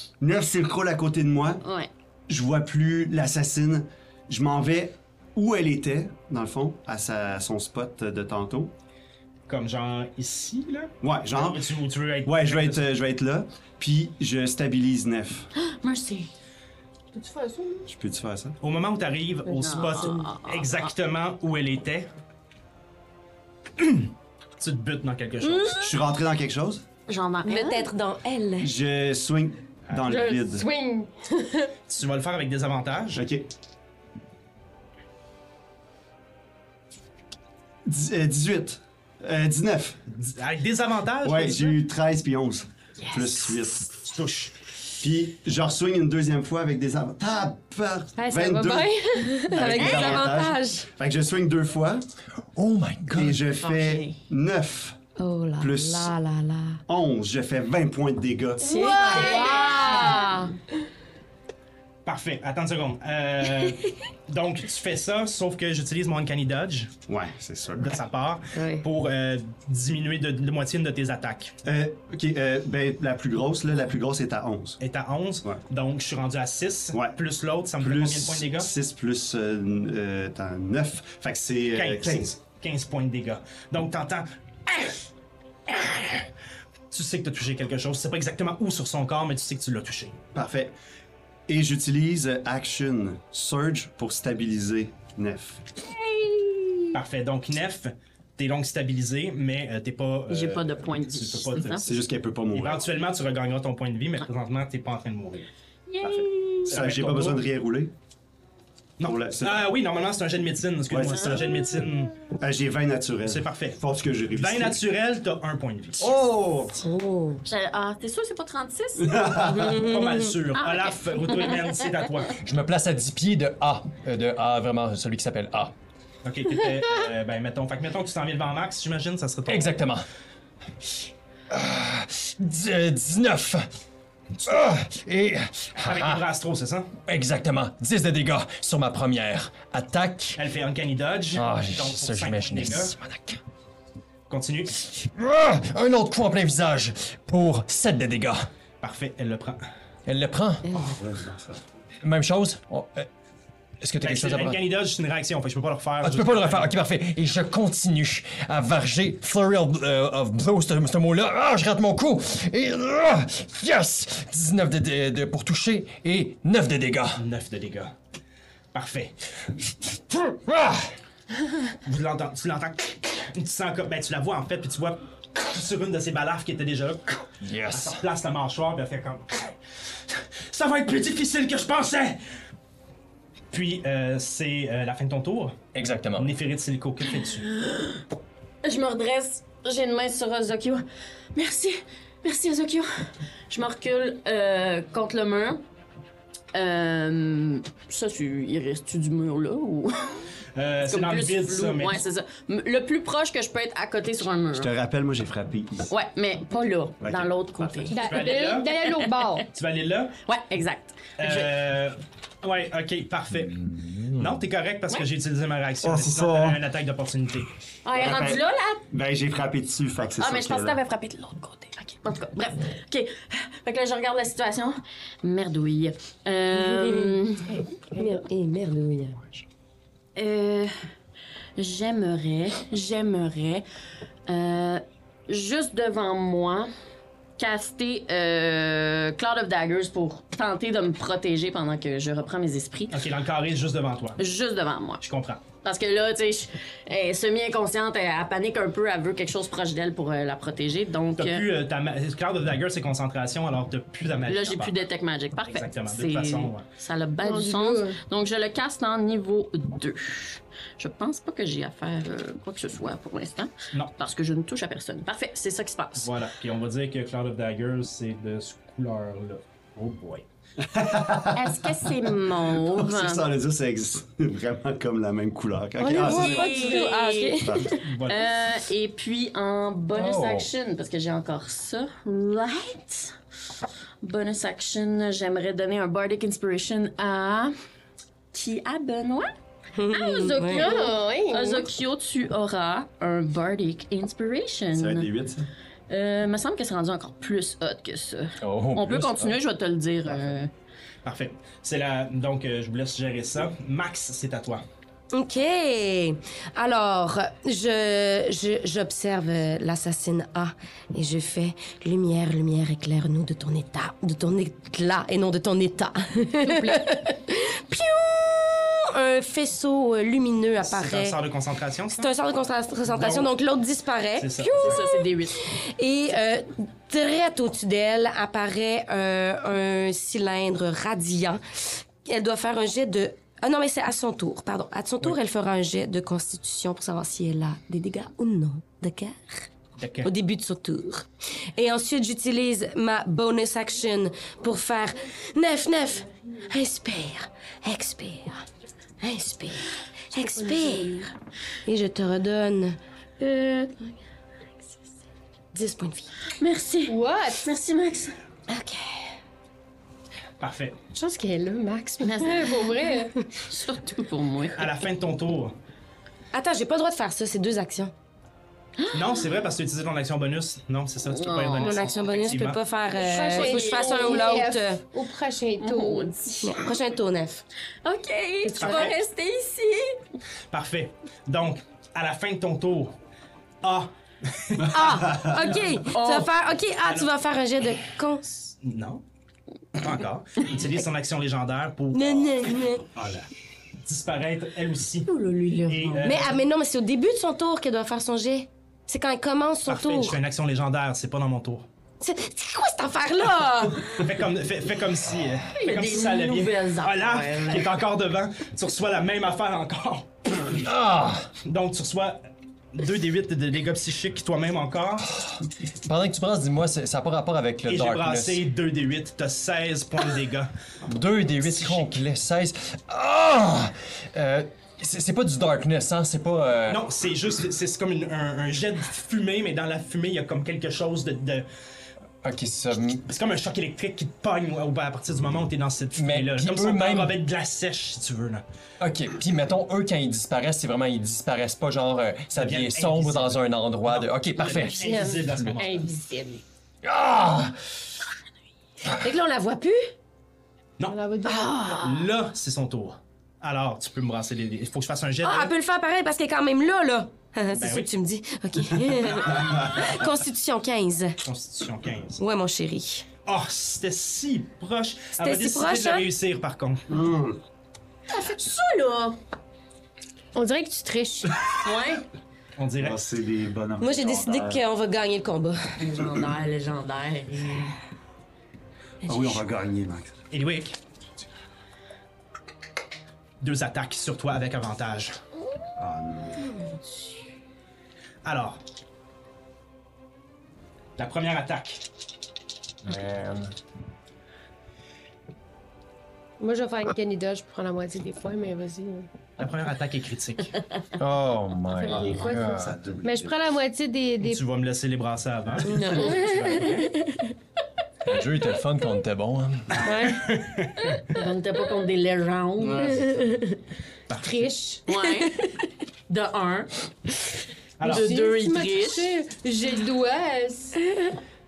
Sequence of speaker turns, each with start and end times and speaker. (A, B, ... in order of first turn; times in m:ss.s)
0:00.2-0:01.6 A
0:01.6-0:01.9 B
0:02.3-0:08.7 A
0:09.5-0:12.9 C
0:11.0-0:11.6 A
0:12.2-0:15.5 A
0:15.6-0:16.3 B
0:17.1-0:17.9 D
0:17.9-0:18.6 A
0:18.6-0:22.1 C
0:19.6-0:20.9 B
0:23.8-0:25.9 C
0:25.7-0:26.8 A
0:27.1-0:27.9 B
0:27.4-0:28.8 E
0:28.6-0:30.7 A
0:30.1-0:31.7 D
0:31.9-0:33.2 C
0:33.2-0:33.5 A
0:37.9-0:40.0 A
0:40.1-0:41.8 C
0:41.2-0:43.9 A
0:43.0-0:43.6 B
0:44.0-0:44.6 C
0:45.0-0:52.1 A
0:48.2-0:49.3 D
0:48.4-0:50.9 E
0:49.8-0:50.2 B
0:52.5-0:53.4 F
0:53.1-0:55.0 A
0:53.6-0:54.2 B
0:55.2-0:56.8 E
0:55.6-0:56.2 A
0:56.9-0:58.7 A
0:58.6-1:00.5 E
0:58.6-1:00.4 B
0:58.8-1:00.4 D
1:02.0-1:07.0 C
1:07.1-1:08.0 A
1:07.8-1:11.6 C
1:08.5-1:08.9 E
1:11.6-1:14.8 A
1:14.8-1:18.7 C
1:17.8-1:22.3 A
1:21.7-1:25.0 C
1:25.7-1:26.3 C
1:26.9-1:30.2 C
1:30.3-1:30.8 A
1:31.5-1:35.7 A
1:36.9-1:41.9 C
1:40.3-1:41.9 B
1:41.8-1:42.8 A
1:42.5-1:45.5 C
1:45.9-1:46.6 B
1:46.0-1:47.9 A
1:46.7-1:47.4 C
1:49.0-1:52.2 C
1:49.0-1:49.8 A
1:50.9-1:54.8 A
1:51.0-1:51.8 B
1:53.2-1:56.1 C
1:56.0-1:56.9 A
1:56.8-1:57.4 E
1:57.4-1:59.3 B
1:59.0-1:59.9 A
1:59.4-2:00.4 E
1:59.6-2:02.4 C
2:00.6-2:01.7 B
2:02.4-2:05.8 F
2:06.2-2:09.8 C
2:09.5-2:10.0 F
2:11.5-2:13.7 F
2:14.4-2:16.2 F
2:15.8-2:16.9 C
2:17.1-2:20.4 F
2:20.4-2:23.0 C
2:21.3-2:23.4 F
2:24.3-2:24.9 C
2:24.9-2:28.5 F
2:28.8-2:29.6 C
2:30.1-2:30.9 F
2:30.8-2:31.6 A
2:32.0-2:33.1 F
2:33.8-2:34.6 F
2:34.0-2:36.7 C
2:36.0-2:47.2 F
2:47.2-2:47.9 C
2:48.7-2:49.2 C
2:50.1-2:50.9 F
2:51.8-2:59.6 C
2:57.4-2:58.0 F
3:00.1-3:02.2 C
3:03.5-3:05.6 C
3:05.8-3:06.3 F
3:06.2-3:07.5 C
3:07.5-3:08.0 B
3:08.6-3:10.8 B
3:11.3-3:15.6 B
3:16.5-3:20.3 B
3:20.6-3:22.0 C
3:20.8-3:24.7 B
3:24.5-3:25.9 A
3:25.9-3:29.1 B
3:27.0-3:27.9 A
3:27.9-3:29.5 D
3:27.9-3:28.8 C
3:29.5-3:30.2 C
3:30.3-3:31.5 B
3:31.2-3:37.5 C
3:33.6-3:34.2 F
3:35.8-3:36.6 A
3:37.8-3:38.8 B
3:37.9-3:40.8 A
3:40.2-3:47.6 B
3:46.6-3:47.2 E
3:47.9-3:49.2 E
3:50.2-3:50.7 B
3:51.6-3:53.6 B
3:54.3-3:56.7 B
3:57.4-4:03.1 B
4:02.9-4:04.2 C
4:04.2-4:05.0 B
4:05.0-4:05.4 C
4:05.6-4:11.5 B
4:11.2-4:14.8 C
4:14.3-4:26.1 B
4:15.5-4:16.7 C
4:17.2-4:18.0 D
4:26.0-4:30.3 C
4:30.6-4:36.6 A
4:31.3-4:33.2 B
4:35.8-4:37.8 E
4:35.8-4:36.8 D
4:36.0-4:43.2 B
4:37.4-4:37.8 A
4:37.8-4:38.3 C
4:39.9-4:40.5 F
4:44.0-4:47.6 B
4:48.3-4:49.3 B
4:49.8-4:50.8 E
4:49.9-4:55.1 B
4:50.4-4:51.7 D
4:54.7-4:55.5 A
4:55.9-5:00.5 B
4:58.4-4:59.4 F
5:01.0-5:04.6 C
5:05.1-5:21.2 E
5:16.4-5:16.8 D
5:20.6-5:22.1 C
5:21.9-5:24.8 E
5:22.9-5:23.3 C
5:24.2-5:25.0 C
5:24.4-5:25.4 B
5:25.4-5:39.5 E
5:39.8-5:40.1 C
5:40.0-5:48.5 E
5:49.0-5:51.0 E
5:50.2-5:51.1 D
5:51.6-5:52.8 E
5:53.2-5:53.7 B
5:55.5-5:56.1 E
5:56.4-5:58.2 B
5:56.9-5:57.4 D
5:58.5-5:59.2 E
6:00.4-6:00.8 C
6:00.9-6:03.2 D
6:02.0-6:02.6 B
6:03.4-6:04.6 B
6:04.6-6:05.6 C
6:06.3-6:07.9 E
6:08.8-6:09.2 B
6:08.9-6:12.6 C
6:11.1-6:11.7 B
6:11.6-6:14.8 E
6:13.0-6:16.2 D
6:13.1-6:14.4 B
6:15.6-6:16.7 B
6:16.4-6:17.4 E
6:17.8-6:20.0 B
6:18.6-6:18.9 D
6:18.6-6:19.0 C
6:20.5-6:23.0 C
6:23.6-6:25.0 C
6:24.7-6:28.3 E
6:25.9-6:26.3 B
6:26.9-6:27.1 C
6:28.5-6:29.0 C
6:29.8-6:32.6 C
6:31.9-6:32.9 E
6:33.0-6:33.2 A
6:33.8-6:35.1 C
6:35.1-6:36.2 B
6:35.7-6:36.4 C
6:36.0-6:40.2 E
6:39.7-6:41.7 C
6:42.0-6:44.0 E
6:43.9-6:50.7 C
6:45.5-6:47.7 B
6:50.6-6:51.3 F
6:51.4-6:52.2 C
6:52.7-6:55.1 C
6:55.2-6:58.4 F
6:57.7-7:00.5 C
7:00.9-7:06.8 F
7:01.4-7:02.0 C
7:06.7-7:11.5 C
7:12.2-7:13.0 F
7:13.1-7:18.4 C
7:16.0-7:17.2 F
7:18.8-7:25.6 F
7:22.4-7:26.0 C
7:24.8-7:26.4 D
7:26.8-7:27.6 F
7:29.0-7:29.9 E
7:30.9-7:31.9 D
7:31.2-7:32.0 E
7:31.7-7:35.5 C
7:35.2-7:41.2 E
7:37.6-7:37.9 C
7:41.2-7:42.2 C
7:42.2-7:43.1 E
7:43.3-7:46.9 C
7:45.2-7:46.1 E
7:46.9-7:47.4 A
7:48.1-7:49.2 B
7:50.4-7:51.3 D
7:51.6-7:52.1 B
7:52.6-7:53.0 C
7:52.8-7:54.6 A
7:53.8-7:55.6 E
7:55.8-7:57.8 B
7:59.0-8:00.2 A
8:00.3-8:00.8 C
8:03.4-8:05.1 C
8:05.8-8:06.6 A
8:06.6-8:06.9 E
8:08.2-8:08.6 C
8:11.0-8:11.8 C
8:12.8-8:13.5 F
8:16.4-8:19.1 D
8:19.4-8:20.6 C
8:21.0-8:22.8 F
8:21.7-8:24.4 D
8:22.5-8:22.8 C
8:22.6-8:23.3 A
8:24.2-8:26.9 C
8:25.6-8:27.3 E
8:25.7-8:26.1 D
8:28.1-8:29.8 F
8:29.8-8:30.2 D
8:29.9-8:31.0 C
8:31.1-8:33.0 B
8:32.8-8:33.5 E
8:34.1-8:34.5 C
8:34.1-8:35.0 D
8:34.9-8:35.5 B
8:36.1-8:36.7 B
8:37.8-8:38.1 C
8:37.8-8:39.1 B
8:37.8-8:40.8 D